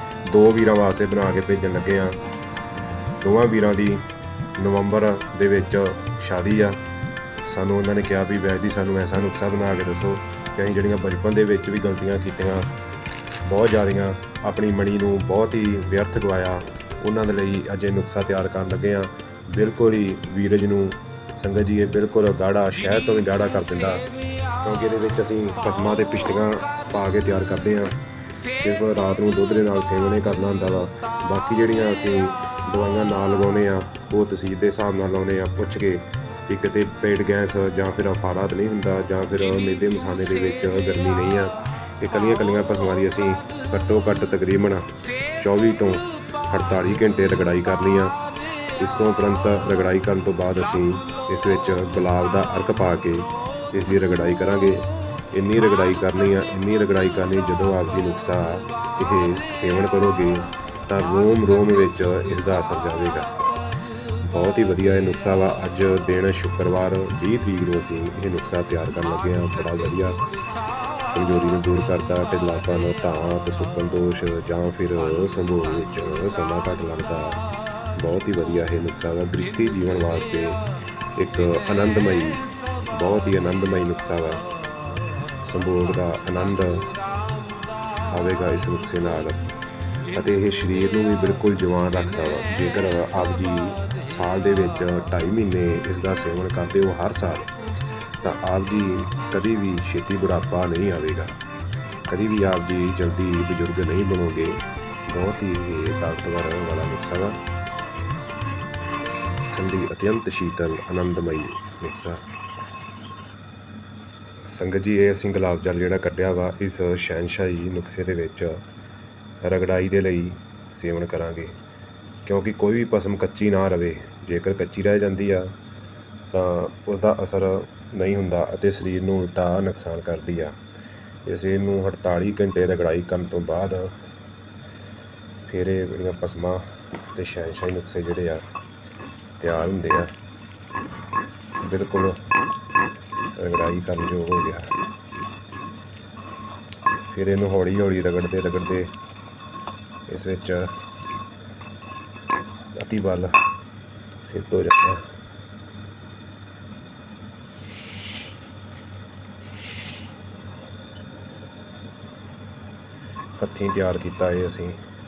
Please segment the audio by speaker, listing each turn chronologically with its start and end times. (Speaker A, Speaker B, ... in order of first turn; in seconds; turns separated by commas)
Speaker A: 0.2-2.2, Speaker A: 3.2-4.0, Speaker A: 4.6-6.8, Speaker A: 7.4-12.7, Speaker A: 13.4-24.1, Speaker A: 24.6-27.9, Speaker A: 28.5-48.1, Speaker A: 48.8-63.3, Speaker A: 64.2-70.2, Speaker A: 71.1-84.4, Speaker A: 85.4-86.9, Speaker A: 88.0-89.5, Speaker A: 90.1-97.5, Speaker A: 98.2-101.3, Speaker A: 102.1-107.4, Speaker A: 109.5-112.2, Speaker A: 114.4-118.6, Speaker A: 119.4-121.6, Speaker A: 122.2-125.5, Speaker A: 126.3-130.6, Speaker A: 131.2-133.9, Speaker A: 135.4-138.4, Speaker A: 139.4-140.1, Speaker A: 141.6-142.2, Speaker A: 143.3-144.7, Speaker A: 147.1-148.9, Speaker A: 150.1-150.7, Speaker A: 152.7-153.3, Speaker A: 154.2-155.0, Speaker A: 163.4-164.8